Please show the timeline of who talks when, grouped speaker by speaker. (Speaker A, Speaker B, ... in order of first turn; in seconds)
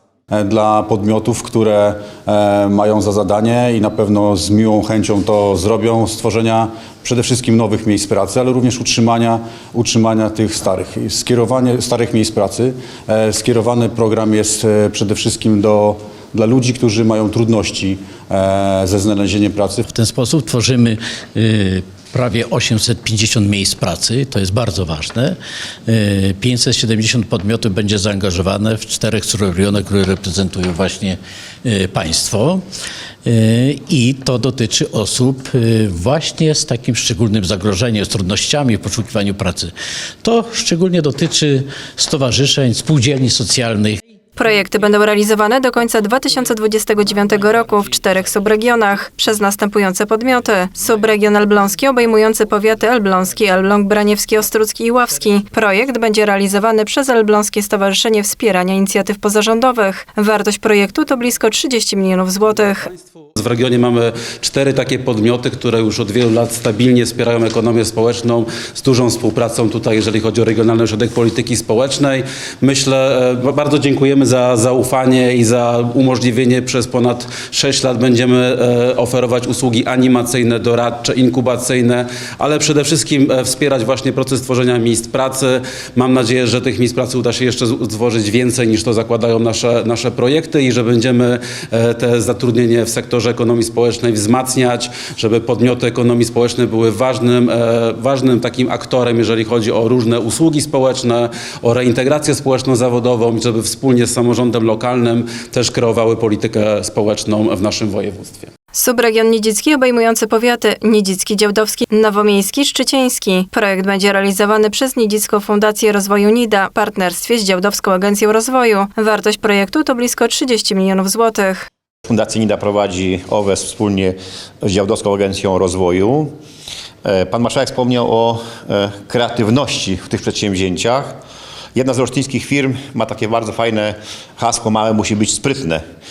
Speaker A: 0.3-19.8
Speaker B: 19.9-32.6, 33.2-39.7, 40.2-44.0
Speaker C: 44.4-62.9, 108.7-121.7
Speaker D: 62.8-108.5
Speaker E: 122.1-126.3, 127.0-131.2, 131.7-135.8